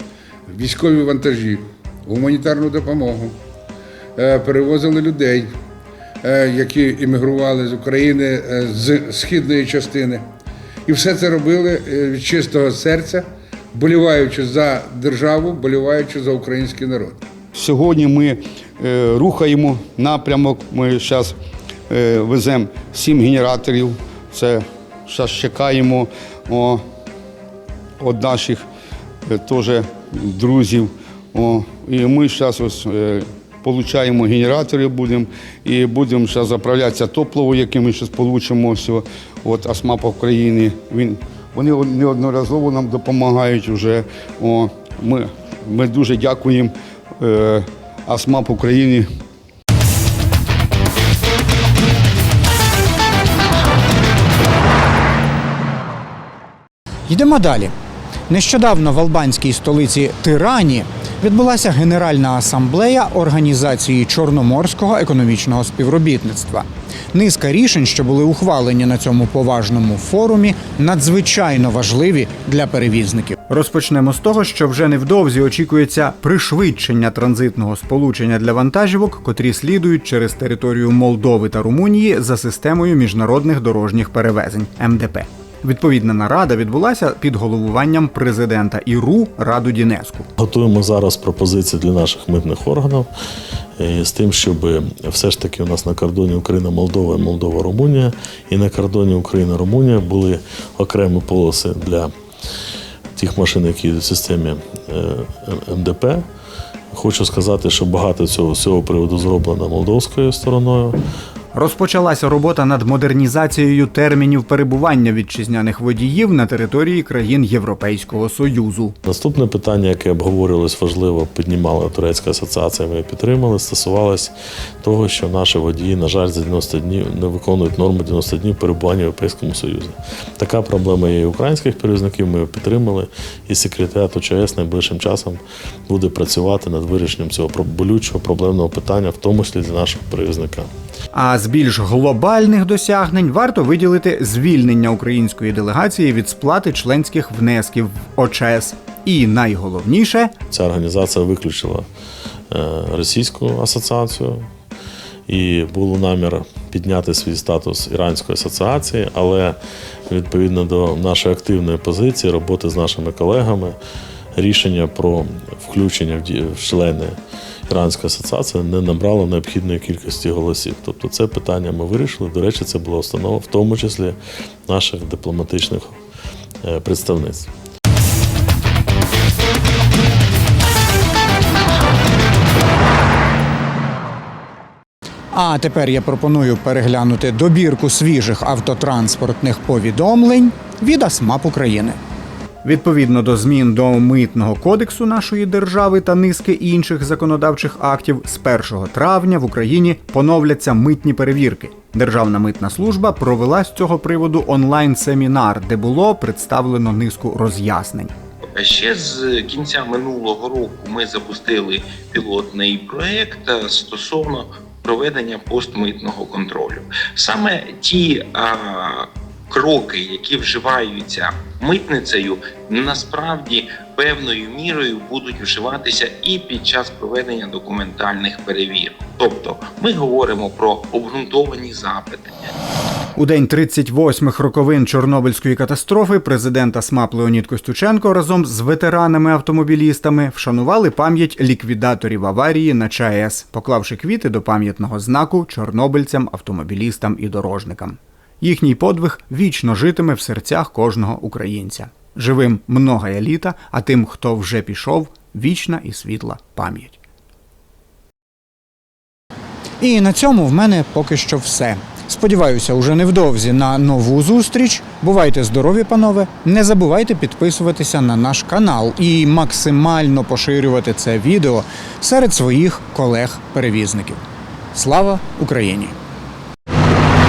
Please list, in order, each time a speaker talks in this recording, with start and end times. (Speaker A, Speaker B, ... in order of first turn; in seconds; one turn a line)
Speaker A: 0.5-3.4
Speaker A: 4.2-5.5
Speaker A: 6.2-10.2
Speaker A: 10.9-17.2
Speaker B: 17.5-21.4
Speaker B: 21.9-26.8
Speaker B: 28.0-28.7
Speaker B: 29.3-49.1
Speaker C: 57.1-57.7
Speaker C: 58.3-90.3
Speaker D: 90.4-93.1
Speaker D: 93.8-102.1
Speaker D: 103.2-106.2
Speaker D: 106.9-111.0
Speaker C: 111.5-118.9
Speaker D: 119.1-140.7
Speaker C: 141.1-150.3
Speaker D: 150.5-151.9
Speaker D: 152.5-154.5
Speaker D: 155.3-159.6
Speaker D: 160.1-163.8
Speaker D: 164.3-167.2
Speaker D: 167.7-176.0
Speaker D: 176.6-177.5
Speaker C: 185.3-192.0
Speaker C: 192.6-208.1
Speaker E: 208.6-232.6
Speaker C: 233.2-257.0
Speaker C: 259.8-274.2
Speaker C: 274.7-275.9